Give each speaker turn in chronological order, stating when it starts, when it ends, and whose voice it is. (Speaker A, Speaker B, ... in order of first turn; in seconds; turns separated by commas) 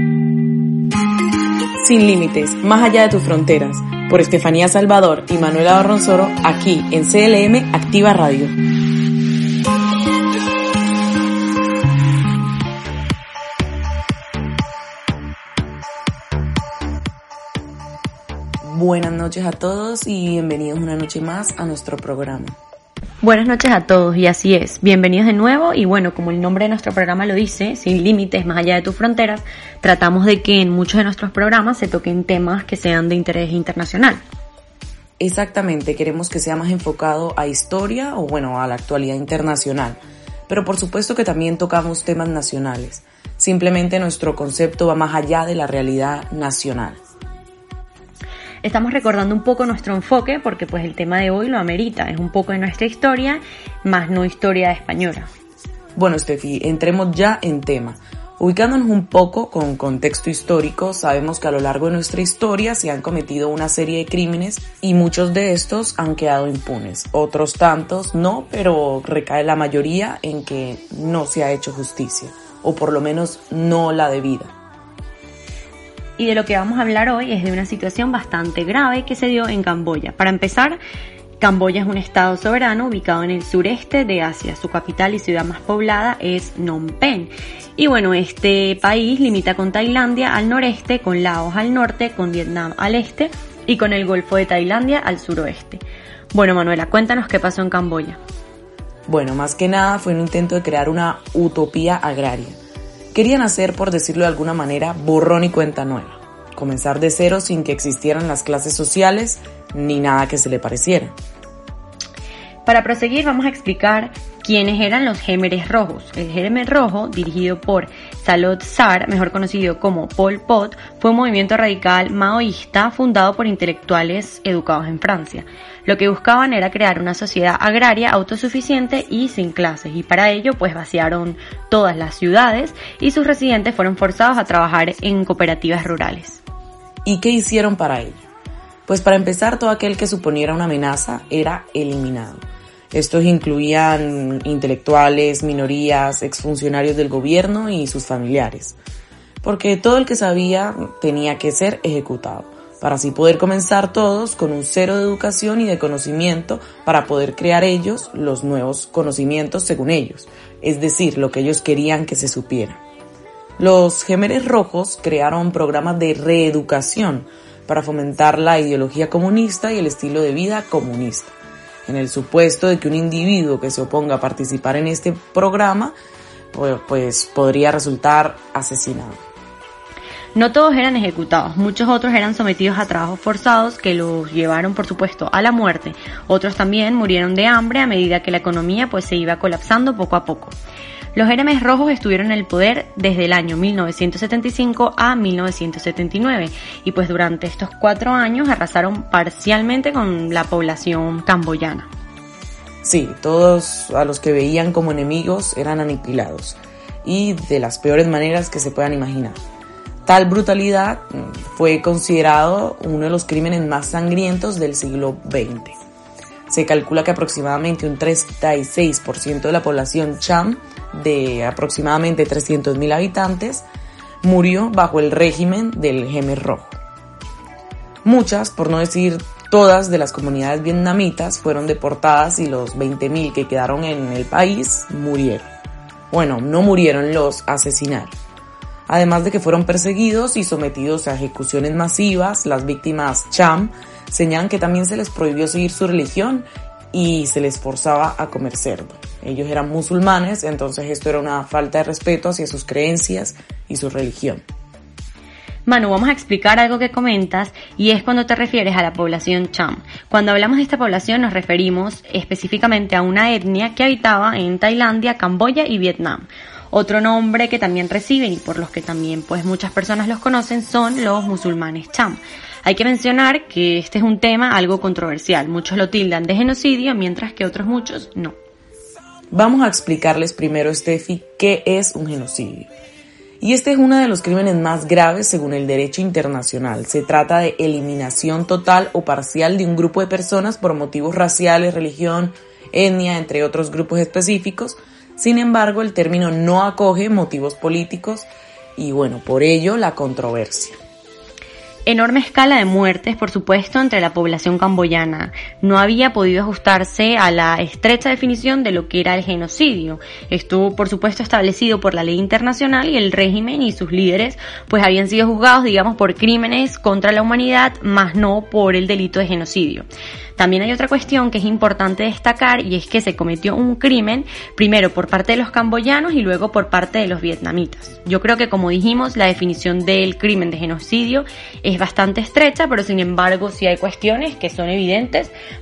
Speaker A: 1.8-8.5, Speaker A: 18.6-22.6, Speaker B: 23.2-34.2, Speaker A: 35.2-47.0, Speaker B: 48.6-55.3, Speaker A: 56.0-74.5, Speaker B: 76.2-80.8, Speaker B: 81.4-98.2, Speaker A: 99.1-102.6, Speaker A: 103.1-111.1, Speaker B: 112.7-136.4, Speaker A: 137.0-138.2, Speaker A: 138.9-148.8, Speaker A: 149.4-162.8, Speaker A: 163.6-171.3, Speaker A: 171.9-175.9, Speaker A: 176.5-179.2, Speaker B: 180.3-190.5, Speaker B: 191.1-201.9, Speaker A: 202.8-209.4, Speaker A: 210.0-215.8, Speaker A: 216.5-223.6, Speaker A: 224.2-226.8, Speaker A: 228.0-235.5, Speaker A: 236.1-238.1, Speaker A: 238.9-254.4, Speaker B: 255.7-278.4, Speaker A: 279.3-282.7, Speaker A: 283.4-300.8, Speaker B: 301.9-335.3